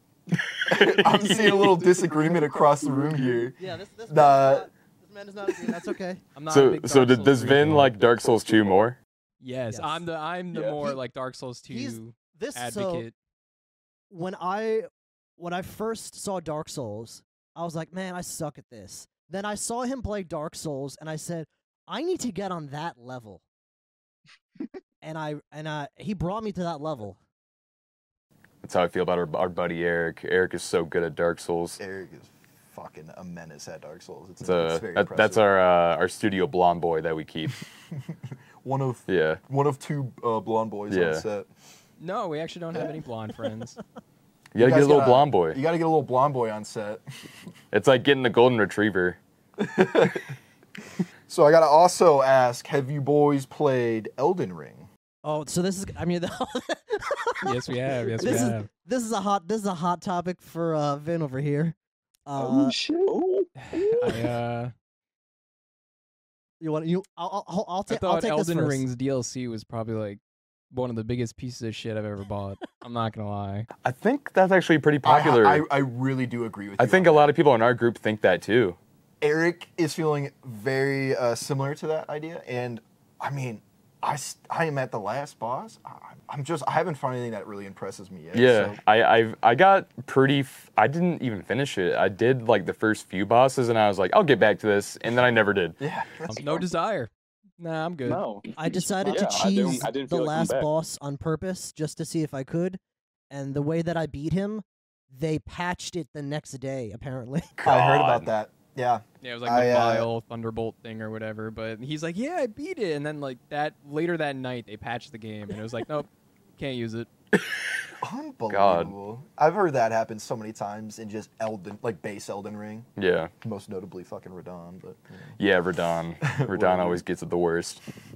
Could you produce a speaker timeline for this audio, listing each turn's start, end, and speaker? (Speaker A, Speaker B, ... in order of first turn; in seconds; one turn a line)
Speaker A: 0.4-1.8
Speaker B: 0.7-4.7
Speaker C: 2.0-3.4
Speaker D: 3.6-6.2
Speaker E: 6.3-7.9
Speaker A: 6.5-9.0
Speaker E: 9.4-13.1
Speaker D: 9.7-10.0
Speaker C: 10.5-10.8
Speaker D: 11.7-13.1
Speaker D: 14.1-23.4
Speaker D: 25.0-27.2
Speaker A: 28.6-31.8
Speaker B: 31.8-35.4
Speaker A: 34.4-37.6
Speaker B: 37.9-41.5
Speaker A: 39.1-39.4
Speaker A: 40.9-41.2
Speaker E: 42.0-43.8
Speaker A: 44.5-45.6
Speaker B: 44.5-47.0
Speaker A: 47.7-49.2
Speaker B: 49.6-50.4
Speaker B: 51.3-54.9
Speaker D: 55.2-57.6
Speaker E: 57.4-58.7
Speaker D: 58.2-61.8
Speaker D: 62.3-62.8
Speaker C: 62.3-64.4
Speaker E: 63.7-64.7
Speaker D: 66.6-68.8
Speaker E: 67.9-70.2
Speaker E: 70.7-73.7
Speaker A: 73.8-75.7
Speaker B: 75.0-77.3
Speaker A: 76.8-78.8
Speaker B: 79.2-88.8
Speaker A: 88.3-95.8
Speaker B: 95.8-96.6
Speaker E: 96.3-98.2
Speaker C: 98.0-100.7
Speaker D: 98.6-102.8
Speaker D: 103.3-107.5
Speaker A: 107.6-108.3
Speaker B: 107.6-110.1
Speaker E: 109.2-117.1
Speaker A: 117.3-117.6
Speaker B: 118.0-122.9
Speaker A: 118.5-118.9
Speaker A: 123.0-123.3
Speaker B: 123.4-125.3
Speaker A: 125.4-127.8
Speaker B: 126.2-127.0